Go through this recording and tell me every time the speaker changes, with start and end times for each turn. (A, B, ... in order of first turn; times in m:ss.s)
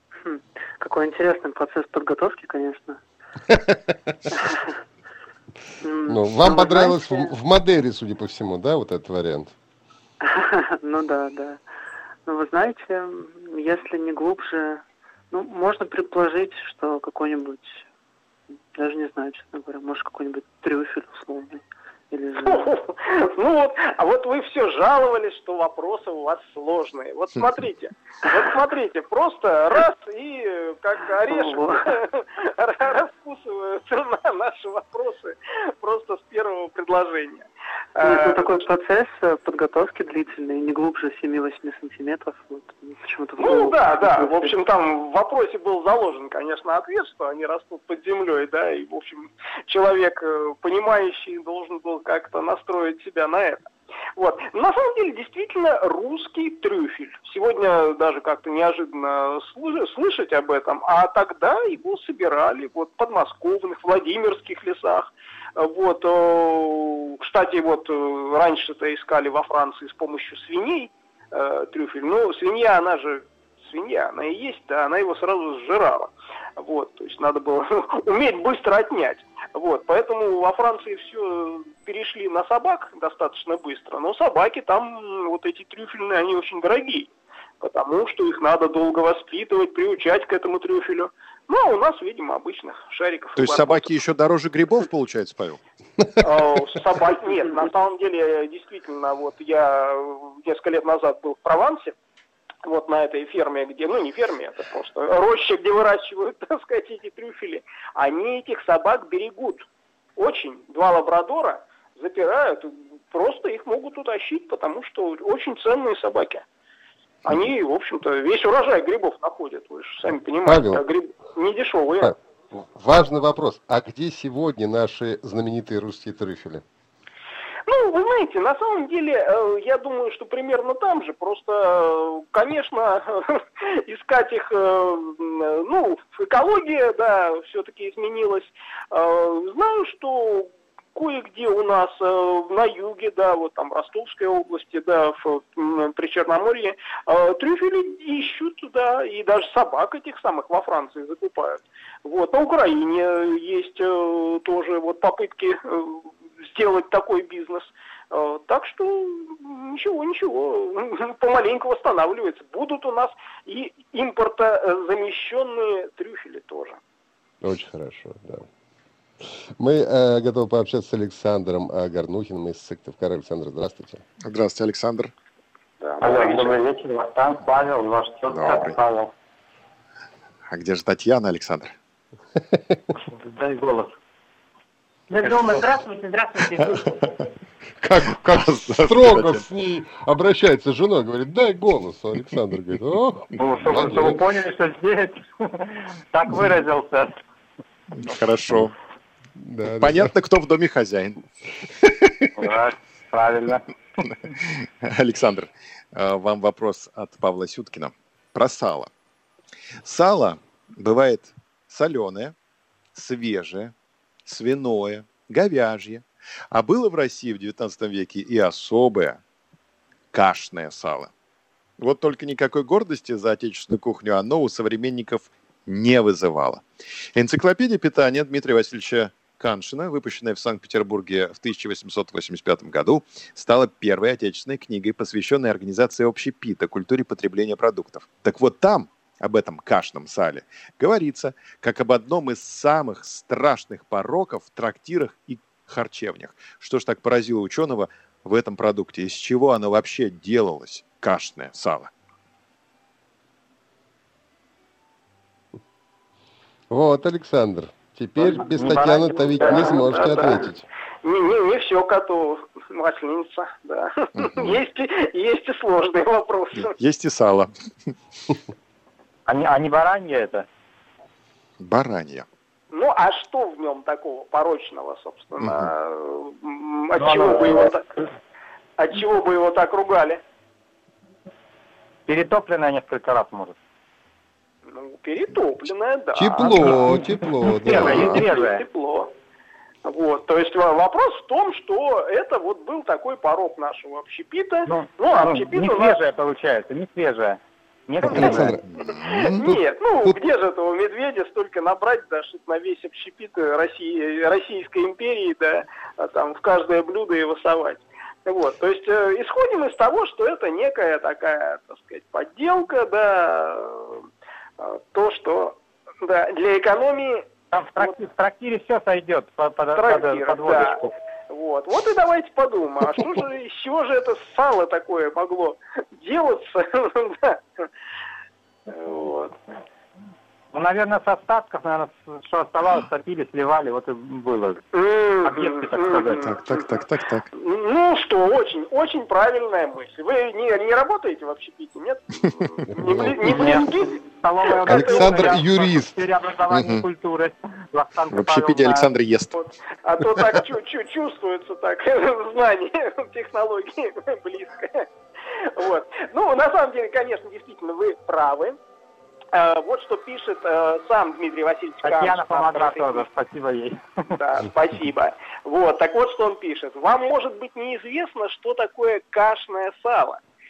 0:00.2-0:03.0 A
0:03.5-0:04.1 B
0:05.8-0:07.3 A
0:06.1-0:09.5 B
0:10.2-0:11.6 A
0:12.3-0:17.9 A
0:18.8-0:22.7 A
0:22.4-0:38.6 C
0:31.3-0:31.9 A
0:38.0-0:44.5 A
0:43.4-0:53.6 C
0:54.2-1:34.0 C
1:33.4-1:35.6 D
1:36.2-1:42.0 C
1:42.7-1:49.7 C
1:50.2-1:56.4 C
1:57.3-2:02.1 C
2:00.4-2:00.8 B
2:02.0-2:06.6 B
2:07.7-2:46.8 C
2:47.4-2:48.5 B
2:49.6-2:54.0 B
2:54.2-2:55.1 D
2:55.8-2:56.6 C
2:56.0-2:59.1 E
2:58.3-2:58.8 D
3:00.5-3:01.7 D
3:03.0-3:03.9 E
3:05.1-3:07.2 E
3:07.8-3:14.2 B
3:08.4-3:09.4 D
3:13.4-3:17.2 E
3:18.0-3:18.7 D
3:19.4-3:20.1 B
3:19.8-3:21.2 D
3:22.4-3:23.7 E
3:24.4-3:28.9 D
3:29.8-3:32.3 D
3:33.0-3:33.7 D
3:34.3-3:39.2 D
3:40.1-3:41.1 D
3:41.8-3:46.6 D
3:47.2-4:11.9 D
4:16.7-4:20.6 B
4:18.2-4:20.4 E
4:19.4-4:20.5 C
4:21.0-4:26.7 C
4:24.3-4:24.6 D
4:26.6-4:27.9 D
4:29.3-4:30.5 E
4:31.6-4:32.3 D
4:32.7-4:37.8 C
4:35.4-4:35.7 D
4:37.0-4:37.7 E
4:38.8-4:40.2 C
4:42.1-4:43.6 E
4:44.7-4:46.8 C
4:46.2-4:48.2 B
4:46.4-4:48.6 E
4:47.7-4:49.1 C
4:49.8-4:56.0 C
4:54.7-4:58.5 E
4:58.1-5:00.2 B
4:58.2-4:58.4 C
4:58.7-4:59.4 D
4:59.1-5:14.0 C
5:14.6-5:17.2 C
5:17.5-5:20.9 E
5:19.7-5:27.4 C
5:28.7-5:29.3 C
5:30.5-5:34.6 E
5:34.7-5:36.8 C
5:35.2-5:36.3 E
5:36.2-5:37.3 D
5:37.4-5:45.4 C
5:42.7-5:43.5 B
5:43.2-5:48.9 E
5:44.7-5:46.0 B
5:46.5-5:46.8 D
5:48.1-5:49.3 D
5:49.3-5:58.6 C
5:59.3-6:03.1 C
6:01.8-6:03.8 E
6:04.1-6:10.2 C